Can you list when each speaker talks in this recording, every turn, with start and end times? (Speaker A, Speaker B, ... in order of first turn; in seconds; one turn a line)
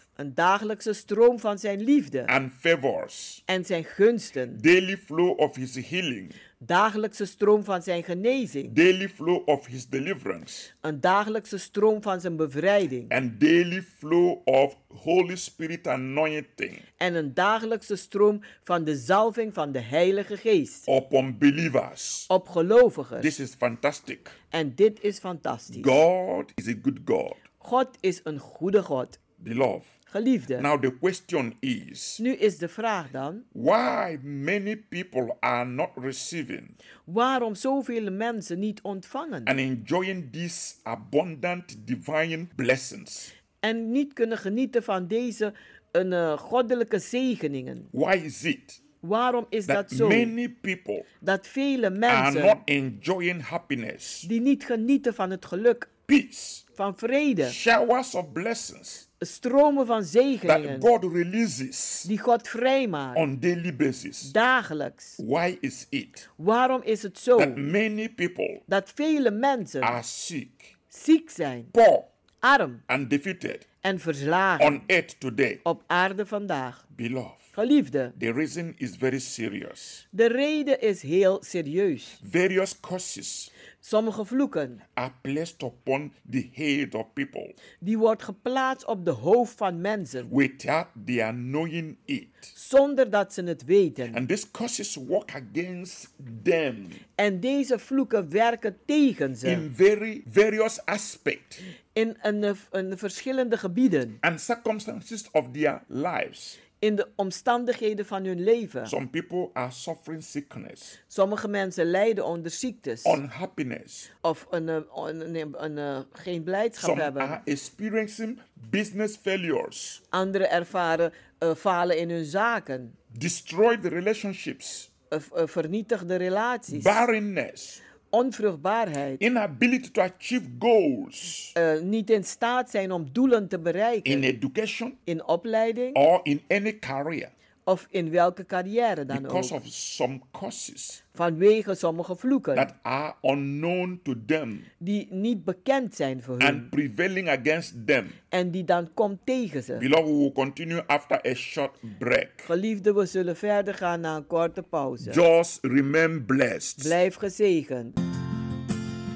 Speaker A: 0.2-2.3
Speaker B: 2.3-3.4
Speaker A: 3.5-4.6
Speaker B: 4.6-6.4
Speaker A: 6.6-8.7
Speaker B: 8.7-10.7
Speaker A: 10.8-13.1
Speaker B: 13.1-16.8
Speaker A: 17.0-20.9
Speaker B: 20.9-22.3
Speaker A: 22.3-23.3
Speaker B: 23.2-24.4
Speaker A: 24.5-25.9
Speaker B: 25.7-27.4
Speaker A: 27.6-29.2
Speaker B: 29.4-29.9
Speaker A: 30.1-30.7
Speaker B: 30.6-32.2
Speaker A: 32.2-33.5
Speaker B: 33.5-36.8
Speaker A: 37.1-39.5
Speaker B: 39.5-43.3
Speaker A: 43.6-47.9
Speaker B: 47.9-48.8
Speaker A: 49.0-50.3
Speaker B: 49.7-51.1
Speaker A: 51.2-52.6
Speaker B: 52.1-54.3
Speaker A: 54.2-55.9
Speaker B: 56.1-56.6
Speaker A: 56.8-57.6
Speaker B: 57.4-59.1
Speaker A: 59.2-60.9
Speaker B: 60.5-62.1
Speaker A: 62.0-63.2
Speaker B: 63.1-64.3
Speaker A: 64.2-65.2
Speaker B: 65.2-66.3
Speaker A: 66.4-67.6
Speaker B: 67.4-68.6
Speaker A: 68.7-70.0
Speaker B: 69.8-70.8
Speaker A: 70.9-71.7
Speaker B: 71.7-72.1
Speaker A: 72.4-72.8
Speaker B: 72.9-73.7
Speaker A: 73.8-74.8
Speaker B: 74.6-75.6
Speaker A: 75.7-76.8
Speaker B: 76.9-77.5
Speaker A: 77.6-78.1
Speaker B: 78.2-80.0
Speaker A: 80.1-82.2
Speaker B: 82.2-83.5
Speaker A: 83.8-84.8
Speaker B: 85.0-87.6
Speaker A: 87.8-90.3
Speaker B: 90.3-92.5
Speaker A: 92.5-94.2
Speaker B: 94.1-97.0
Speaker A: 97.2-99.6
Speaker B: 99.5-101.6
Speaker A: 102.0-104.2
Speaker B: 104.2-106.6
Speaker A: 106.8-108.9
Speaker B: 108.9-111.0
Speaker A: 111.1-113.2
Speaker B: 113.0-114.1
Speaker A: 114.2-117.4
Speaker B: 116.8-120.0
Speaker A: 120.1-123.0
Speaker B: 123.1-124.9
Speaker A: 125.1-127.1
Speaker B: 126.7-127.8
Speaker A: 128.1-129.2
Speaker B: 129.2-131.6
Speaker A: 131.6-134.3
Speaker B: 134.1-135.0
Speaker A: 135.1-136.0
Speaker B: 135.9-137.3
Speaker A: 137.7-139.6
Speaker B: 139.1-141.0
Speaker A: 141.2-142.7
Speaker B: 142.6-144.7
Speaker A: 144.8-146.7
Speaker B: 146.4-148.2
Speaker A: 148.3-149.8
Speaker B: 149.8-152.5
Speaker A: 152.5-155.2
Speaker B: 155.0-157.0
Speaker A: 156.8-157.9